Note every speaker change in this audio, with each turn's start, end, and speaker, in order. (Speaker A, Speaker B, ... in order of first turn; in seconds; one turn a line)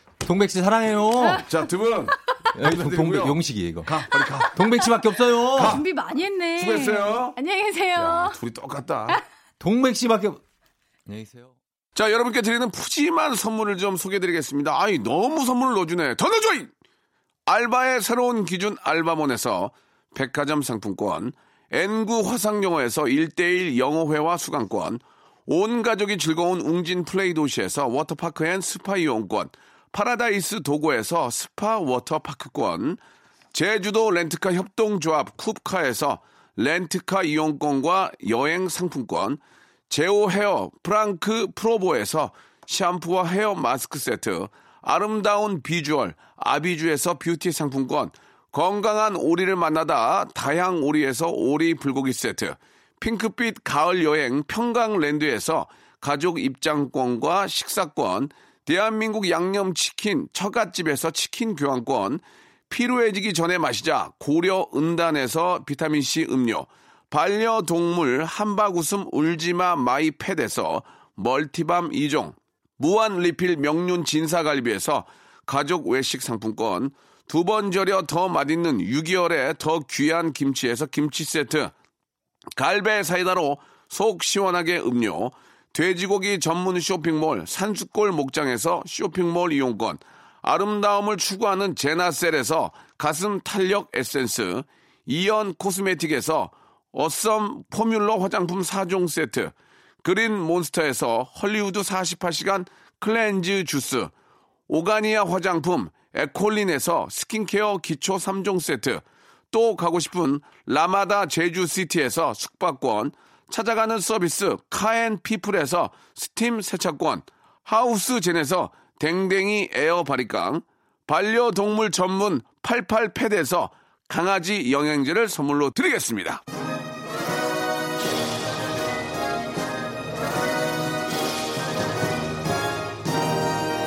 Speaker A: 0.2-1.4
Speaker B: 1.2-1.6
Speaker C: 1.4-4.6
Speaker A: 2.5-5.8
Speaker B: 4.8-8.4
Speaker C: 5.5-5.8
Speaker C: 6.5-7.4
Speaker C: 7.9-9.2
Speaker A: 9.6-10.4
Speaker A: 11.1-11.5
Speaker C: 11.9-16.7
Speaker C: 17.4-33.0
Speaker C: 33.5-81.7
Speaker C: 82.5-104.1
Speaker C: 104.7-126.4